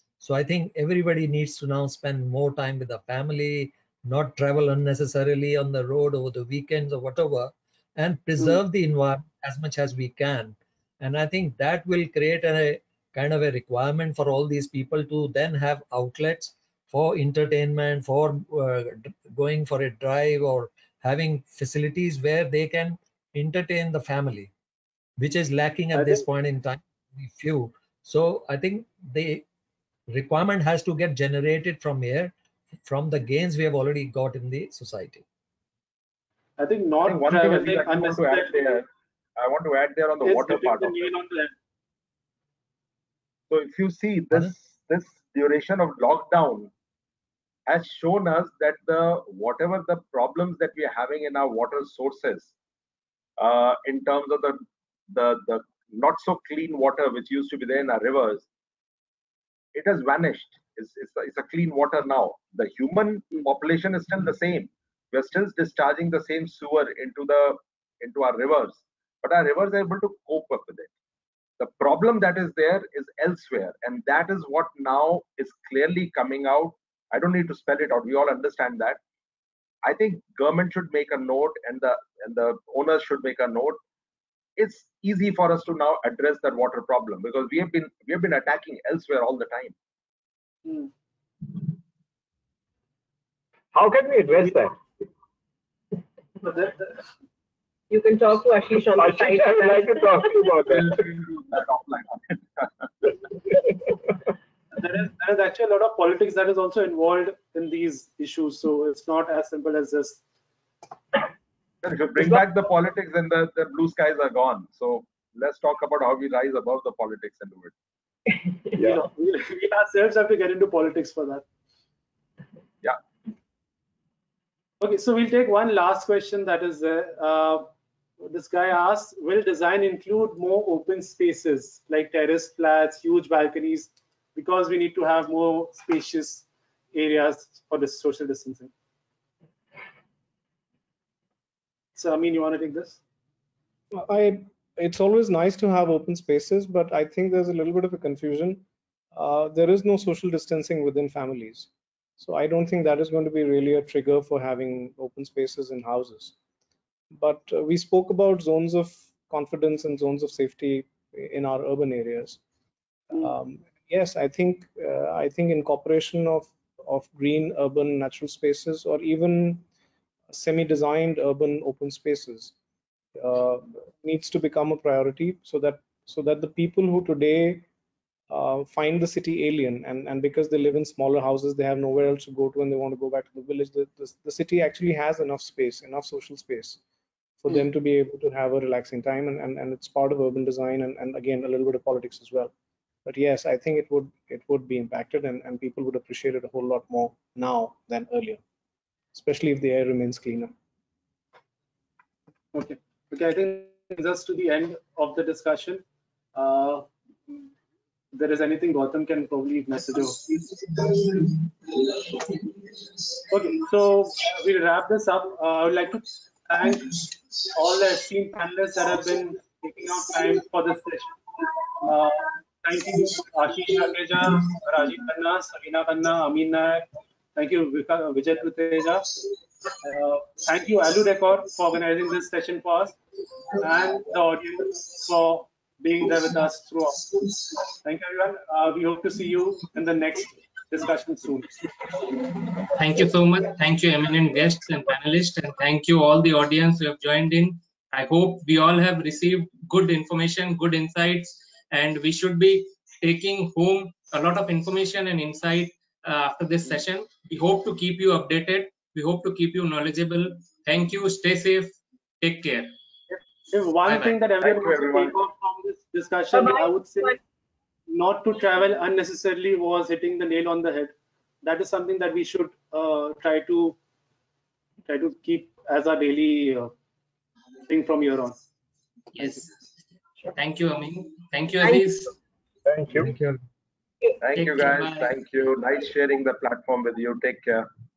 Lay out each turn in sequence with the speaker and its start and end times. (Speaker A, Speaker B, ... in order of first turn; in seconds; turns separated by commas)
Speaker A: 0.2-24.5, Speaker A: 25.2-29.4, Speaker B: 25.9-26.2, Speaker A: 30.1-32.3, Speaker A: 32.8-35.2, Speaker B: 36.6-38.8, Speaker C: 37.0-38.9, Speaker C: 39.4-41.1, Speaker B: 40.2-41.5, Speaker C: 43.5-46.7, Speaker C: 47.7-52.5, Speaker C: 53.4-58.5, Speaker C: 59.7-70.9, Speaker C: 71.6-79.0, Speaker C: 79.8-83.8, Speaker C: 84.6-89.7, Speaker B: 90.6-90.9, Speaker D: 93.7-94.8, Speaker B: 96.4-97.0, Speaker E: 97.9-100.3, Speaker D: 99.0-101.0, Speaker C: 100.7-102.7, Speaker B: 104.7-110.2, Speaker C: 111.8-117.7, Speaker D: 118.8-119.0, Speaker B: 118.8-121.4, Speaker B: 124.8-138.7, Speaker B: 141.9-143.0, Speaker F: 143.9-156.3, Speaker F: 157.1-162.4, Speaker F: 163.1-169.6, Speaker F: 170.3-172.5, Speaker F: 173.2-177.7, Speaker F: 178.3-186.8, Speaker F: 187.4-192.5, Speaker F: 193.0-198.4, Speaker F: 199.1-200.5, Speaker B: 202.5-205.8, Speaker B: 206.3-206.9, Speaker B: 208.1-210.3, Speaker B: 213.3-221.1, Speaker B: 221.7-229.2, Speaker B: 229.8-233.0, Speaker B: 233.6-241.7, Speaker G: 242.7-262.8, Speaker B: 263.1-267.2, Speaker G: 263.9-264.2, Speaker C: 264.4-265.1, Speaker E: 266.3-267.2, Speaker B: 267.9-273.8, Speaker B: 274.9-276.7, Speaker B: 277.7-278.4, Speaker G: 279.1-279.6, Speaker G: 280.3-282.1, Speaker D: 282.6-283.1, Speaker A: 283.0-283.4, Speaker C: 284.2-287.7, Speaker G: 284.3-285.1